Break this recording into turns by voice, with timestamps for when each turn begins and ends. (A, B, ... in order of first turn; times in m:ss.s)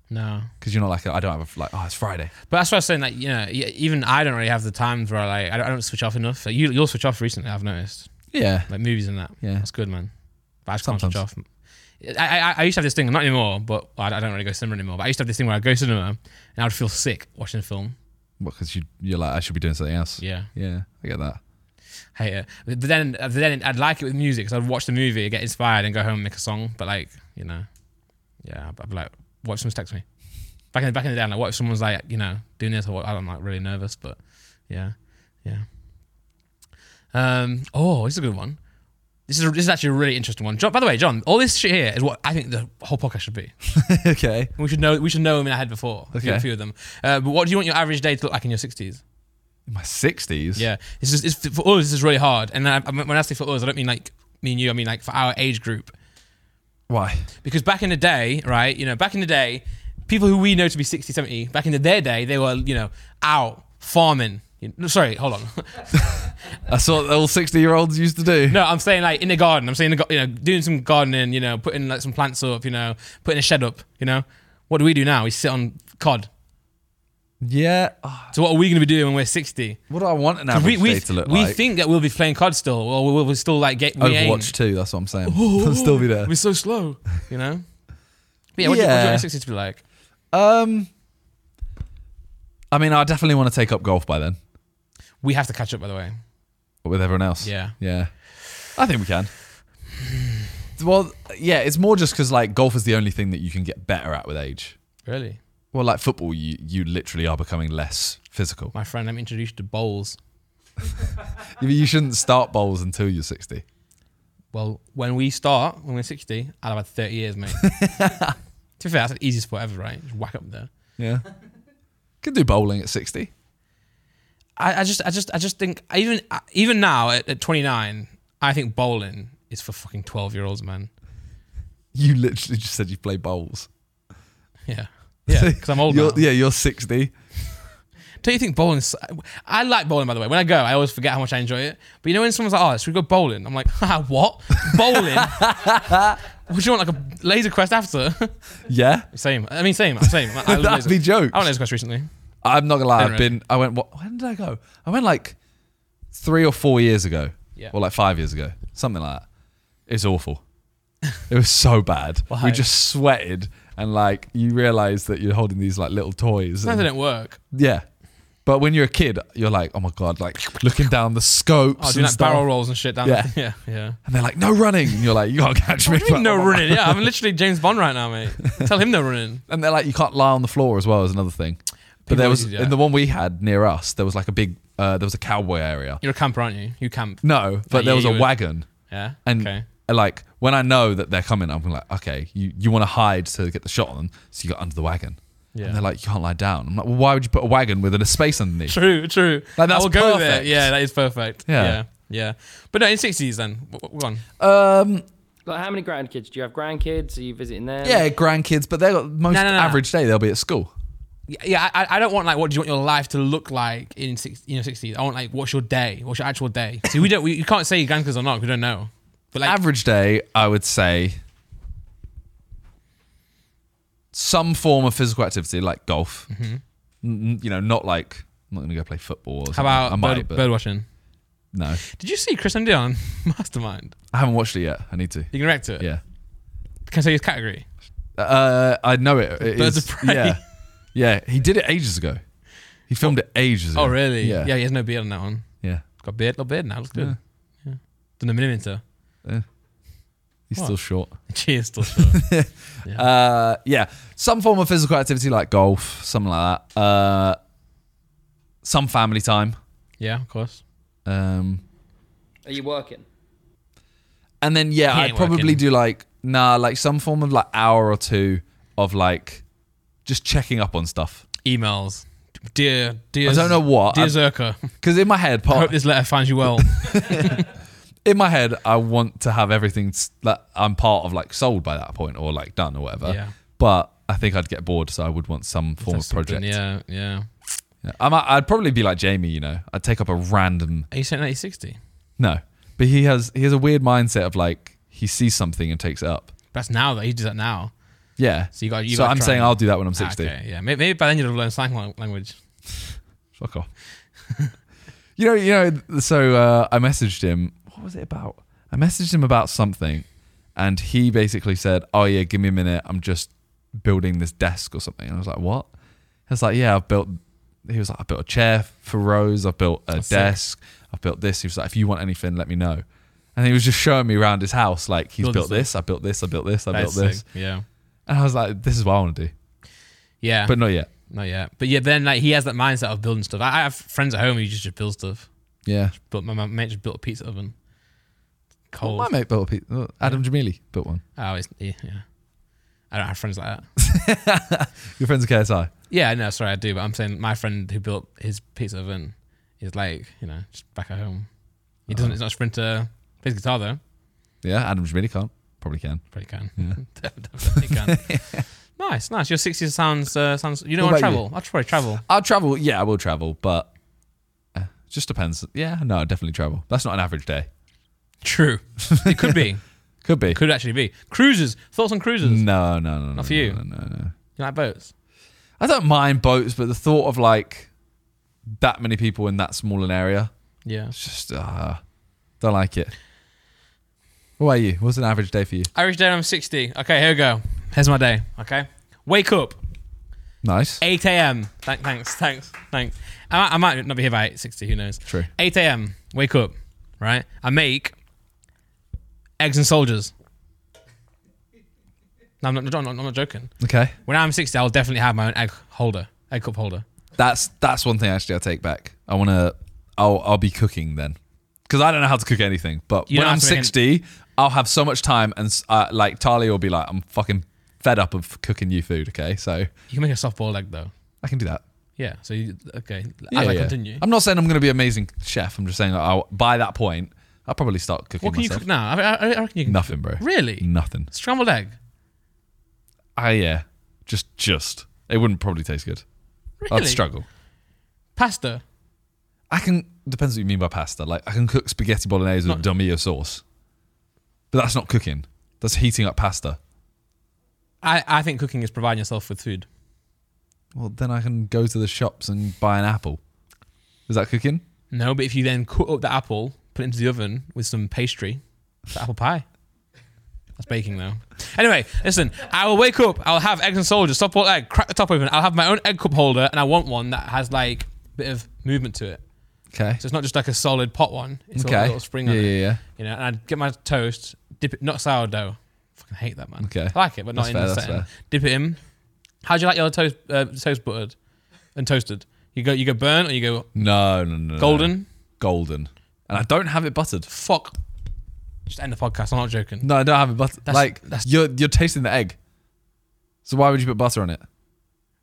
0:00.1-0:00.5 A
0:00.6-0:02.3 B
0:02.5-0:08.1 A
0:08.3-0:08.7 B
0:08.7-0:10.1 A
0:09.4-0:09.6 B
0:10.6-0:11.4 A
0:10.8-0:11.2 B
0:12.0-0:17.9 A
0:18.4-0:21.4 B
0:20.2-0:20.5 A
0:22.1-0:27.7 A
0:28.4-0:30.0 A
0:30.7-0:35.6 A
0:37.1-0:38.6 A
0:39.2-0:43.5 A
0:43.7-0:44.5 B
0:44.6-0:49.0 A
0:46.1-0:46.4 B
0:49.7-0:50.6 B
0:50.5-0:55.9 A
0:56.9-0:57.3 B
0:57.4-1:06.3 A
1:06.7-1:08.6 B
1:08.5-1:16.3 A
1:17.4-1:18.3 B
1:18.3-1:19.8 A
1:19.9-1:21.6 B
1:20.5-1:24.5 A
1:24.0-1:26.3 B
1:25.2-1:27.6 A
1:28.5-1:29.8 A
1:28.6-1:29.3 B
1:30.3-1:30.9 B
1:32.7-1:34.4 B
1:35.2-1:36.2 A
1:36.8-1:39.3 B
1:37.4-1:37.7 A
1:40.8-1:44.8 B
1:45.0-1:45.4 A
1:45.7-1:48.7 B
1:48.7-1:50.2 A
1:51.4-1:53.6 B
1:54.5-1:57.7 A
1:57.6-1:58.4 B
1:58.8-2:00.7 A
2:01.0-2:01.2 B
2:02.2-2:03.3 B
2:04.6-2:10.9 A
2:11.9-2:13.7 B
2:14.7-2:16.2 A
2:15.3-2:17.1 B
2:18.2-2:25.5 A
2:25.1-2:26.2 B
2:26.5-2:28.4 A
2:28.6-2:29.1 B
2:29.1-2:32.1 A
2:30.0-2:31.5 B
2:32.4-2:35.4 B
2:33.0-2:33.3 A
2:36.1-2:39.2 B
2:39.9-2:40.4 B
2:41.3-2:46.9 B
2:42.3-2:42.6 A
2:46.6-2:47.4 A
2:47.5-2:47.8 B
2:48.4-2:52.5 B
2:51.8-2:54.0 A
2:53.0-2:53.3 B
2:54.0-2:57.1 B
2:55.8-2:59.4 A
2:59.5-3:06.0 B
3:02.0-3:02.8 A
3:06.0-3:09.6 A
3:07.2-3:08.7 B
3:09.2-3:18.8 B
3:15.5-3:15.8 A
3:18.7-3:24.2 A
3:19.6-3:20.7 B
3:21.5-3:21.8 B
3:24.4-3:25.0 B
3:25.4-3:28.1 C
3:27.8-3:30.7 B
3:29.3-3:29.8 A
3:31.3-3:39.6 A
3:39.4-3:41.2 B
3:44.1-3:46.3 B
3:46.3-3:46.6 A
3:47.0-3:50.4 B
3:49.5-3:50.8 A
3:51.5-3:51.8 B
3:51.8-3:53.9 A
3:54.1-3:56.0 B
3:55.3-3:55.9 A
3:56.8-3:57.7 A
3:58.1-4:02.2 B
3:59.4-4:00.4 A
4:02.9-4:04.5 B
4:03.7-4:08.8 A
4:10.5-4:11.3 B
4:10.6-4:12.2 A
4:11.8-4:17.4 B
4:18.6-4:19.6 B
4:20.0-4:20.6 A
4:21.0-4:21.6 B
4:22.4-4:23.0 C
4:24.4-4:29.4 B
4:24.9-4:25.6 A
4:30.0-4:31.2 B
4:31.4-4:34.7 A
4:33.2-4:35.8 B
4:35.5-4:37.5 A
4:36.6-4:37.4 B
4:38.0-4:46.6 B
4:43.0-4:43.3 A
4:45.8-4:47.3 A
4:47.8-4:50.9 B
4:50.9-4:51.8 A
4:52.2-4:56.3 B
4:56.5-4:57.7 A
4:58.2-5:00.3 B
4:58.5-5:02.4 A
5:03.3-5:03.7 B
5:05.2-5:15.7 B
5:16.3-5:27.2 B
5:20.0-5:20.4 A
5:25.2-5:25.7 A
5:26.7-5:27.6 A
5:28.1-5:29.3 B
5:30.2-5:35.3 A
5:30.4-5:30.9 B
5:35.6-5:35.9 B
5:35.9-5:37.5 A
5:38.7-5:39.1 A
5:38.8-5:41.0 B
5:41.2-5:42.0 A
5:42.9-5:43.7 A
5:43.8-5:45.7 B
5:45.9-5:51.3 A
5:51.8-5:53.8 A
5:51.9-5:52.2 B
5:54.4-5:56.8 B
5:56.1-6:02.0 A
5:57.4-5:58.4 B
6:00.8-6:01.2 B
6:02.0-6:03.7 B
6:04.5-6:07.5 B
6:08.2-6:09.6 A
6:08.9-6:09.4 B
6:10.0-6:10.4 B
6:10.3-6:12.4 A
6:12.2-6:14.1 B
6:13.1-6:13.6 A
6:14.4-6:14.9 A
6:15.6-6:17.7 B
6:18.5-6:20.3 B
6:20.6-6:20.9 A
6:20.9-6:21.8 B
6:22.4-6:22.9 B
6:24.4-6:25.7 B
6:25.7-6:29.6 A
6:30.4-6:30.8 B
6:30.8-6:37.9 A
6:39.4-6:40.1 A
6:42.4-6:46.8 A
6:43.6-6:43.9 B
6:47.2-6:59.7 B
6:53.1-6:53.7 A
6:59.9-7:00.9 A
7:01.2-7:01.6 B
7:02.0-7:04.0 A
7:03.3-7:08.6 B
7:08.2-7:11.8 A
7:09.6-7:11.1 B
7:13.2-7:16.0 B
7:16.6-7:17.0 A
7:16.7-7:17.2 B
7:18.2-7:18.6 A
7:19.5-7:23.4 B
7:24.5-7:26.6 B
7:27.8-7:29.7 A
7:30.7-7:33.2 B
7:34.1-7:34.6 B
7:34.9-7:39.4 A
7:40.6-7:49.2 A
7:49.7-7:50.0 B
7:50.0-7:58.8 A
7:51.5-7:52.8 B
7:56.6-7:58.1 B
7:59.4-8:01.2 A
8:01.7-8:03.8 A
8:03.7-8:07.3 B
8:04.6-8:05.0 A
8:07.3-8:07.8 A
8:08.7-8:09.9 A
8:09.8-8:12.4 B
8:10.6-8:11.3 A
8:13.4-8:14.4 B